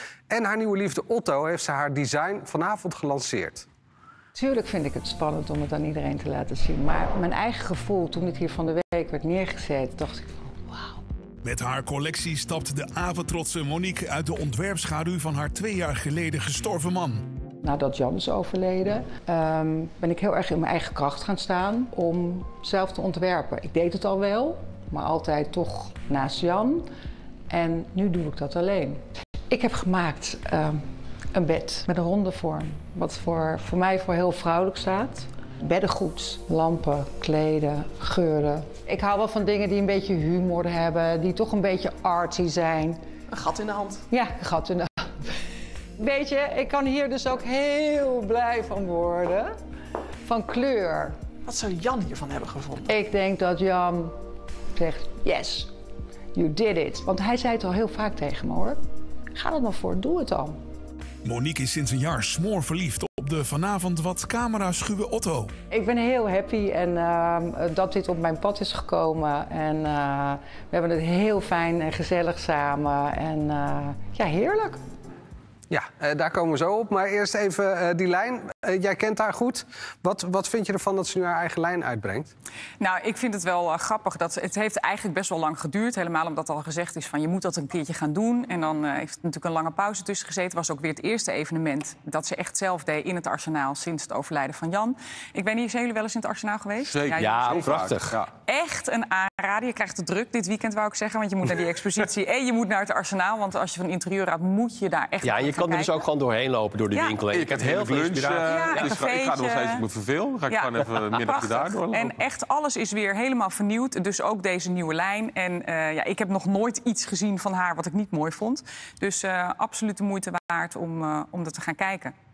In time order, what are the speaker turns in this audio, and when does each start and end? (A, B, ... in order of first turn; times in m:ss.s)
0:00.3-0:03.6 A
0:04.3-0:10.8 B
0:11.4-0:17.2 C
0:17.6-0:26.8 B
0:27.5-0:29.0 B
0:29.5-0:30.8 B
0:31.3-0:42.9 B
0:43.4-0:44.0 D
0:44.1-0:44.9 B
0:46.0-0:49.4 B
0:50.2-0:51.1 B
0:51.4-0:52.9 D
0:52.9-0:54.1 B
0:54.8-0:55.7 B
0:56.3-0:58.8 B
0:59.3-1:00.6 B
1:01.2-1:05.5 C
1:05.7-1:14.8 B
1:15.7-1:22.3 A
1:22.8-1:37.6 E
1:36.8-1:38.3 F
1:37.2-1:38.2 G
1:38.4-1:46.1 E
1:45.2-1:49.0 G
1:46.9-1:47.2 E
1:47.3-1:52.2 F
1:48.4-1:49.9 E
1:50.4-2:02.1 E